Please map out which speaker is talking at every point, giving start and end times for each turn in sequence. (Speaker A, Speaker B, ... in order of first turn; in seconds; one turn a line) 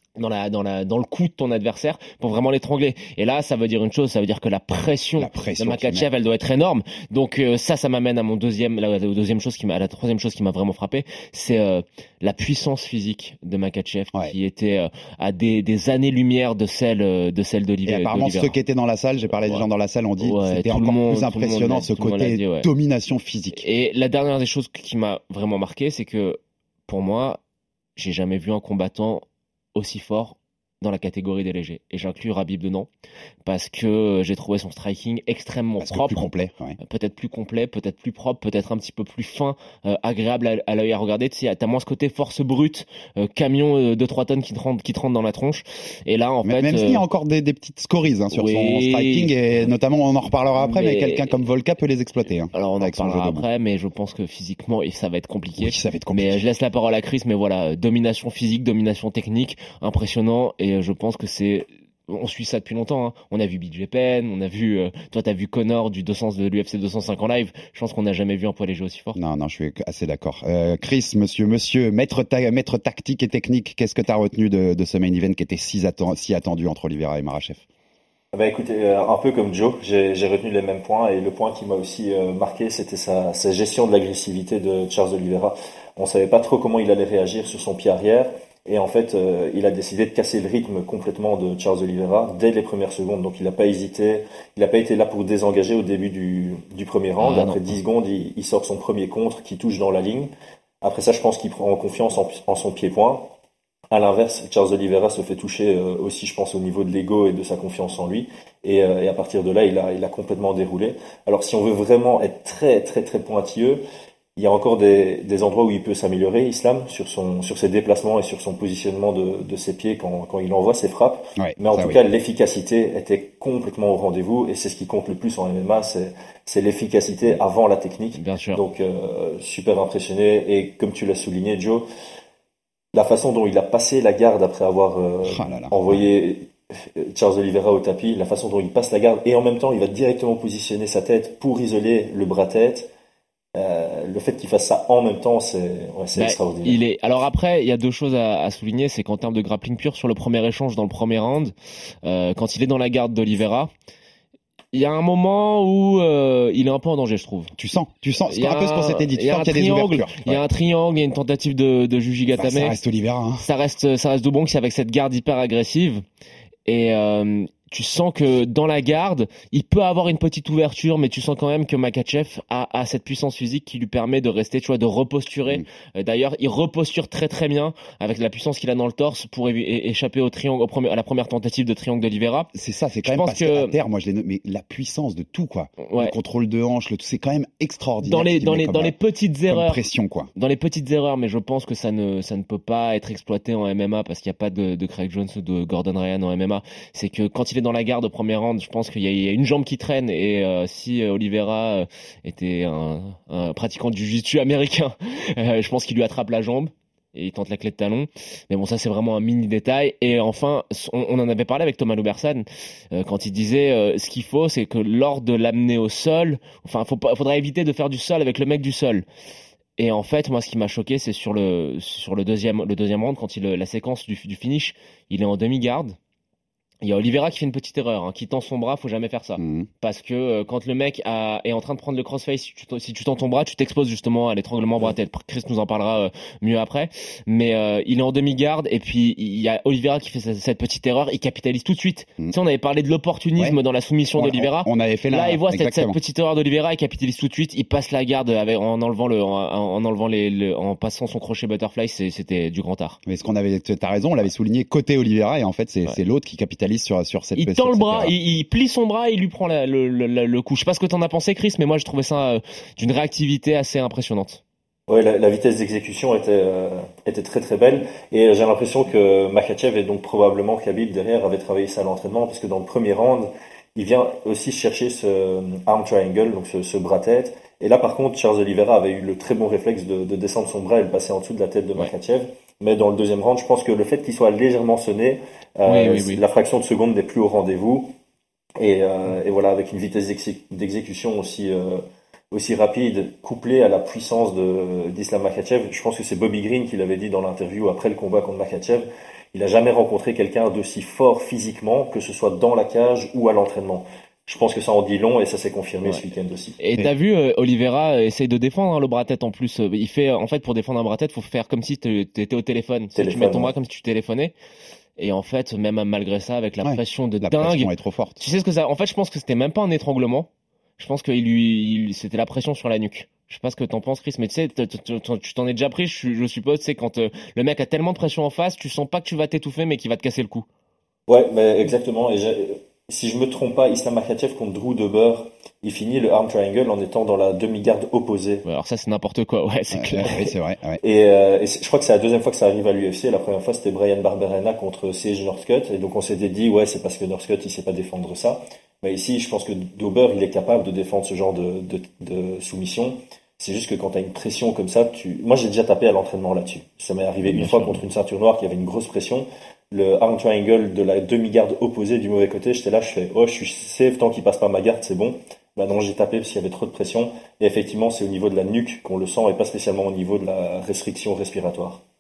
Speaker A: 0.1-18.6
Speaker B: 5.2-6.1
Speaker B: 17.9-23.6
Speaker A: 20.2-22.7
Speaker A: 23.5-27.4
Speaker A: 27.9-32.9
Speaker A: 33.4-36.3
Speaker B: 35.8-36.8
Speaker A: 36.8-47.0
Speaker B: 46.4-53.5
Speaker A: 48.3-49.3
Speaker A: 50.5-51.4
Speaker A: 52.5-69.2
Speaker B: 55.6-56.4
Speaker B: 69.1-77.6
Speaker C: 78.3-100.3
Speaker A: 97.2-97.7
Speaker C: 100.8-103.3
Speaker C: 103.9-113.8
Speaker C: 114.3-131.8
Speaker B: 121.4-122.0
Speaker A: 128.1-128.6
Speaker C: 132.9-142.9
Speaker B: 135.2-136.0
Speaker C: 143.5-146.8
Speaker A: 146.2-153.7
Speaker A: 154.7-157.5
Speaker B: 157.6-160.4
Speaker A: 158.3-162.8
Speaker B: 162.3-163.4
Speaker A: 163.4-166.0
Speaker A: 166.7-182.5
Speaker B: 182.5-188.9
Speaker A: 183.0-183.8
Speaker A: 185.8-186.1
Speaker A: 188.0-189.8
Speaker B: 189.5-190.3
Speaker A: 190.3-219.0
Speaker A: 219.8-226.0
Speaker A: 226.8-253.0
Speaker B: 229.4-229.7
Speaker B: 244.1-246.0
Speaker B: 253.1-258.1
Speaker A: 257.4-264.4
Speaker C: 264.9-287.9
Speaker A: 285.7-286.2
Speaker C: 288.6-306.6
Speaker A: 306.6-314.3
Speaker C: 312.9-313.5
Speaker A: 315.0-330.4
Speaker B: 316.6-318.2
Speaker C: 331.1-338.4
Speaker A: 338.4-340.3
Speaker B: 339.7-340.8
Speaker C: 340.8-371.8
Speaker A: 357.2-357.8